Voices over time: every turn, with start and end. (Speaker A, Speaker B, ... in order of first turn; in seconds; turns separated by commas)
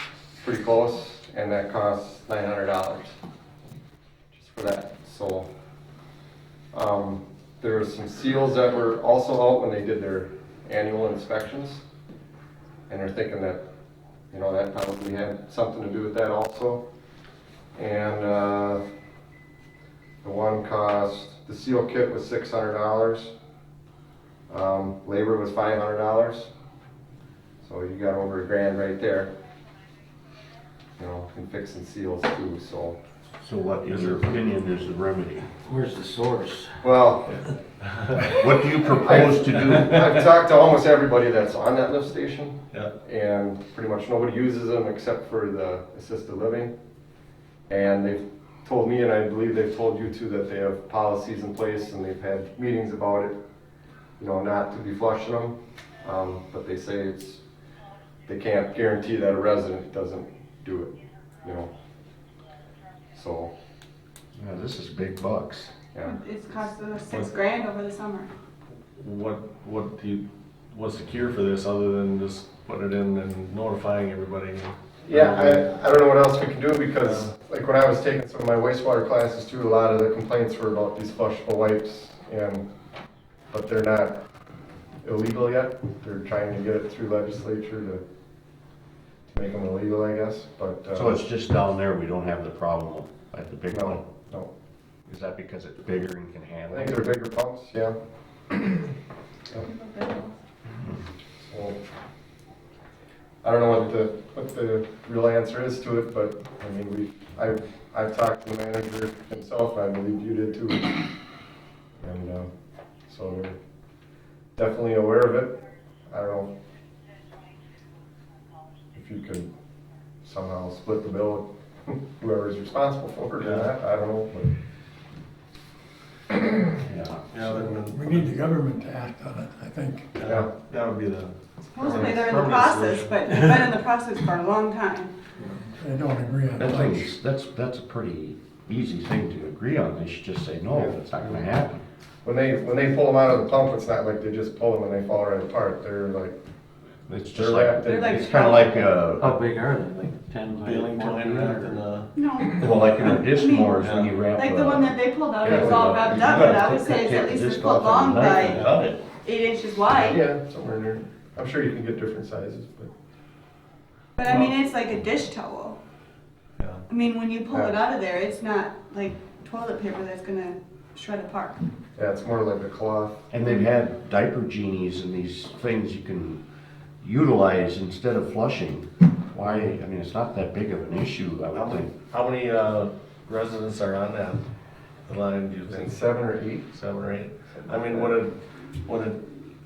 Speaker A: 0.4-3.1, Speaker A: 4.3-5.5, Speaker A: 6.7-11.8, Speaker A: 12.9-13.6, Speaker A: 14.3-16.8, Speaker A: 17.7-18.8, Speaker A: 20.2-23.3, Speaker A: 24.5-26.5, Speaker A: 27.6-29.3, Speaker A: 31.0-33.0, Speaker B: 33.4-35.5, Speaker C: 33.9-34.2, Speaker D: 35.6-36.9, Speaker A: 36.8-37.4, Speaker C: 37.3-38.4, Speaker B: 38.2-40.1, Speaker A: 39.0-46.7, Speaker A: 47.7-53.4, Speaker A: 54.2-57.4, Speaker A: 58.3-61.7, Speaker A: 63.1-63.5, Speaker B: 64.3-65.7, Speaker E: 66.0-68.3, Speaker C: 69.0-75.7, Speaker A: 75.0-82.6, Speaker C: 77.0-77.3, Speaker A: 83.5-84.2, Speaker A: 85.0-88.0, Speaker A: 89.3-91.2, Speaker B: 90.9-94.0, Speaker A: 93.7-94.5, Speaker B: 95.1-97.0, Speaker A: 96.7-97.9, Speaker E: 99.6-100.3, Speaker A: 101.4-101.8, Speaker A: 103.4-111.0, Speaker A: 112.0-112.5, Speaker A: 113.1-113.6, Speaker A: 114.5-115.6, Speaker A: 116.1-116.5, Speaker A: 118.9-119.5, Speaker A: 120.2-124.5, Speaker C: 123.4-123.7, Speaker B: 126.8-127.2, Speaker C: 127.3-128.3, Speaker F: 127.5-130.1, Speaker C: 130.2-133.7, Speaker A: 130.2-130.5, Speaker E: 131.7-135.1, Speaker C: 135.4-135.6, Speaker F: 135.8-137.1, Speaker B: 136.6-141.8, Speaker A: 140.7-141.0, Speaker A: 142.2-146.3, Speaker B: 147.1-149.4, Speaker A: 147.3-148.3, Speaker E: 147.8-148.8, Speaker D: 149.2-151.8, Speaker C: 150.6-152.1, Speaker E: 152.2-158.6, Speaker B: 152.4-159.0, Speaker C: 153.8-154.1, Speaker C: 158.4-159.0, Speaker E: 159.2-160.2, Speaker A: 159.9-162.9, Speaker E: 164.2-165.8, Speaker C: 164.2-164.5, Speaker C: 166.6-166.8, Speaker E: 166.9-171.6, Speaker A: 167.5-167.8, Speaker A: 171.9-173.2, Speaker B: 173.3-176.4, Speaker B: 177.0-181.9, Speaker C: 181.5-184.4, Speaker C: 185.1-186.0, Speaker A: 185.7-186.7, Speaker C: 186.7-189.3, Speaker A: 187.5-188.1